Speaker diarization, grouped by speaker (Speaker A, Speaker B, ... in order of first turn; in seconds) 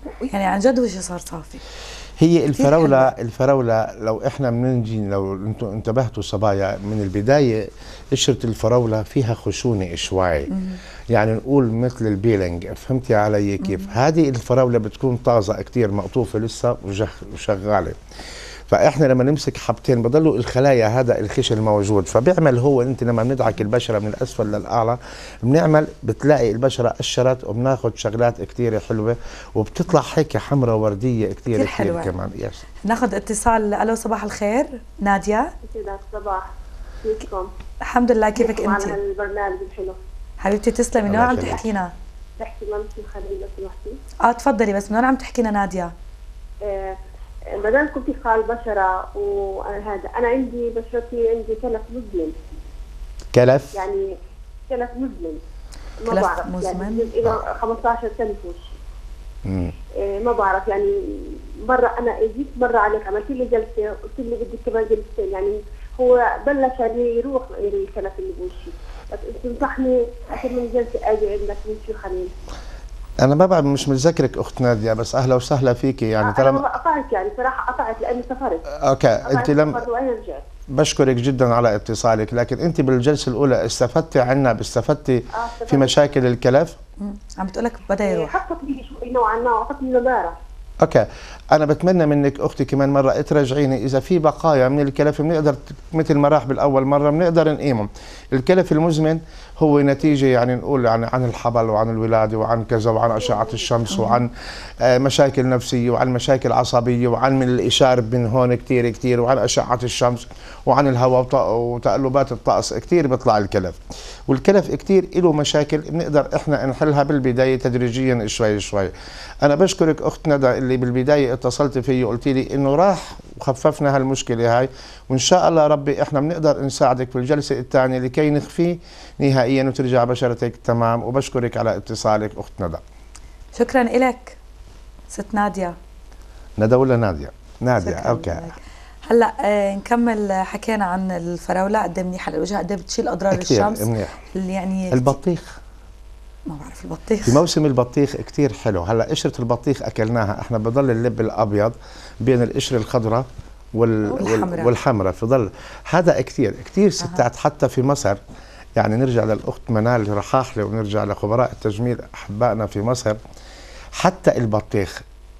Speaker A: 0.2-1.6, 2.6-3.1, 10.5-10.8, 31.5-32.1, 32.8-35.5, 37.9-39.0, 40.4-41.9, 44.2-45.9, 56.1-57.1, 87.0-88.4, 103.9-104.2, 133.6-134.4, 135.1-135.8, 137.8-145.2, 146.5-147.4, 154.1-154.7
Speaker B: 2.2-10.5, 11.1-18.0, 18.7-32.6, 41.1-41.7, 53.3-53.8, 59.5-59.7, 73.2-76.6, 78.8-79.8, 80.7-86.8, 90.8-113.8, 114.3-132.8, 136.6-138.5, 143.3-144.2, 144.9-145.6, 147.3-158.2, 158.8-163.2, 164.0-165.0
Speaker C: 35.6-36.5, 37.0-37.5, 38.4-40.0, 42.4-44.0, 46.6-47.0, 47.5-52.3, 53.8-54.1, 54.7-55.4, 56.0-58.8, 60.0-72.3, 76.2-78.7, 79.3-80.5, 85.4-85.9, 88.0-90.4